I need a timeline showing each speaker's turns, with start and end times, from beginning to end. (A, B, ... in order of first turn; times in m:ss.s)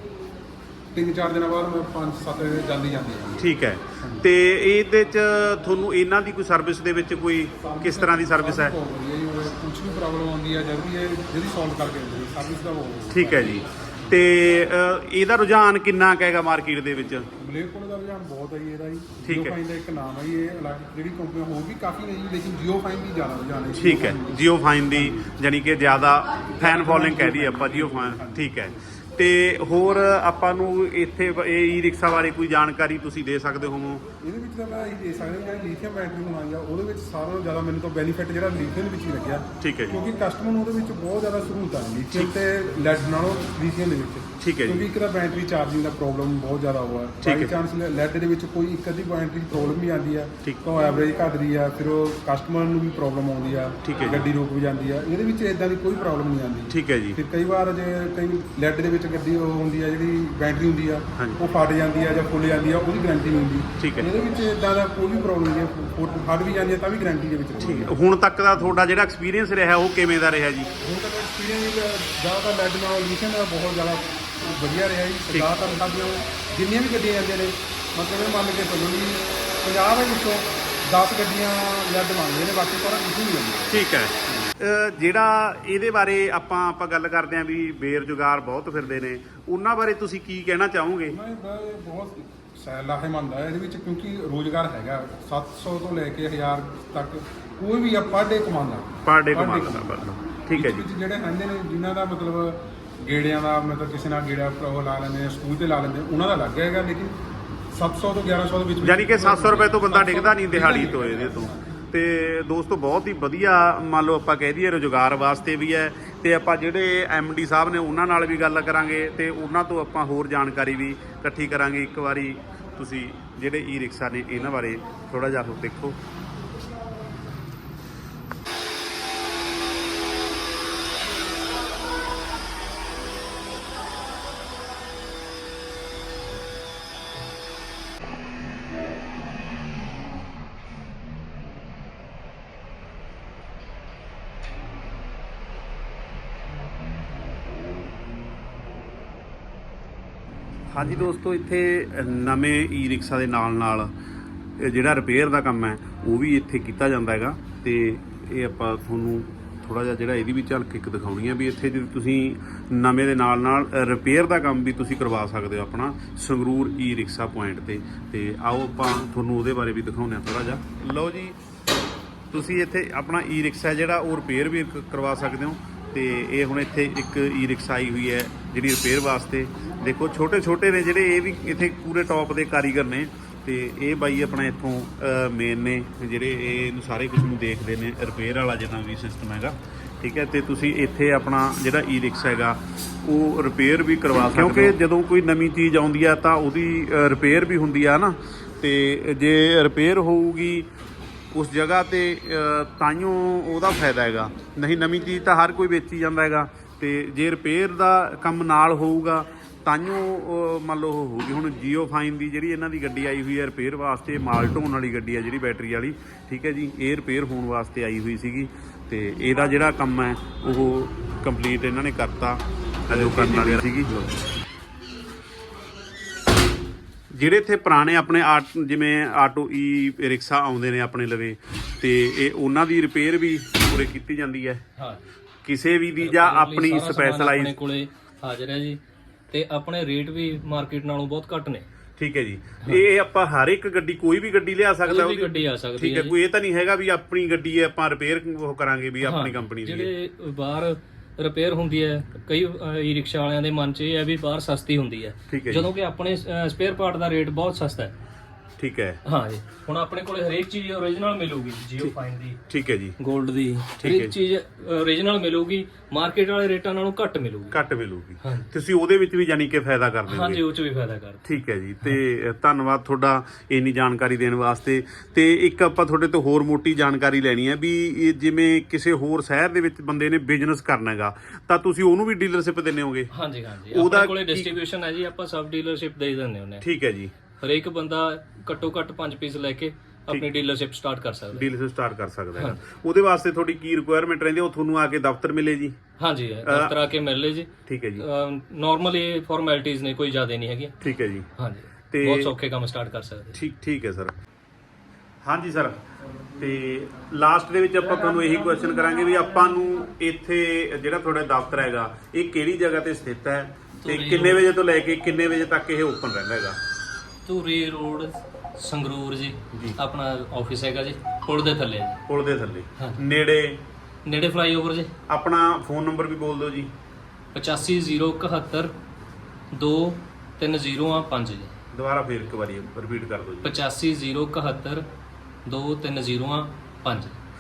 0:00.9-0:03.5 A
0:03.4-0:08.8 B
0:04.0-0:04.3 A
0:07.6-0:14.1 A
0:13.1-0:17.3 B
0:17.4-0:25.3 A
0:19.2-0:19.6 B
0:23.8-0:34.0 B
0:26.6-0:28.7 A
0:34.2-1:07.9 A
0:39.6-0:40.0 B
0:44.4-0:44.9 B
0:47.2-0:47.6 B
0:53.8-0:54.3 B
0:56.7-0:57.2 B
1:01.2-1:01.4 B
1:03.8-1:04.1 B
1:07.6-1:10.7 B
1:10.8-1:24.3 A
1:23.7-1:31.2 B
1:31.1-1:47.2 A
1:39.0-1:40.9 B
1:47.7-1:51.7 A
1:48.8-2:06.0 B
2:30.7-2:33.9 B
2:34.6-2:51.4 B
2:52.3-3:20.7 B
3:21.3-3:44.1 B
3:42.9-3:43.4 C
3:47.1-3:54.6 B
3:54.8-3:55.0 C
3:55.4-3:57.6 B
3:56.0-3:58.8 C
3:59.3-4:01.7 C
4:02.0-4:09.9 B
4:04.8-4:06.2 C
4:09.0-4:18.0 C
4:15.3-4:15.7 B
4:18.6-4:19.0 B
4:19.0-4:22.4 C
4:22.5-4:23.0 B
4:23.0-4:27.6 C
4:23.8-4:24.1 B
4:27.5-4:30.4 B
4:28.2-4:28.5 C
4:30.1-4:31.3 C
4:31.3-4:43.1 B
4:43.1-4:46.6 C
4:43.7-4:44.6 B
4:46.6-4:47.2 B
4:47.4-4:51.5 C
4:51.3-4:55.8 B
4:56.0-5:00.8 C
4:56.4-4:56.8 B
4:57.7-4:58.0 B
5:00.8-5:01.3 B
5:01.4-5:03.4 C
5:01.9-5:02.3 B
5:03.3-5:04.1 B
5:05.2-5:05.8 B
5:06.4-5:16.6 B
5:07.9-5:09.2 C
5:13.8-5:14.5 C
5:17.2-5:22.0 C
5:19.5-5:19.8 B
5:22.1-5:23.6 B
5:24.1-5:24.9 C
5:25.1-5:26.7 B
5:27.4-5:28.7 C
5:29.6-5:31.6 C
5:31.7-5:33.6 B
5:33.4-5:34.8 C
5:35.5-5:37.2 C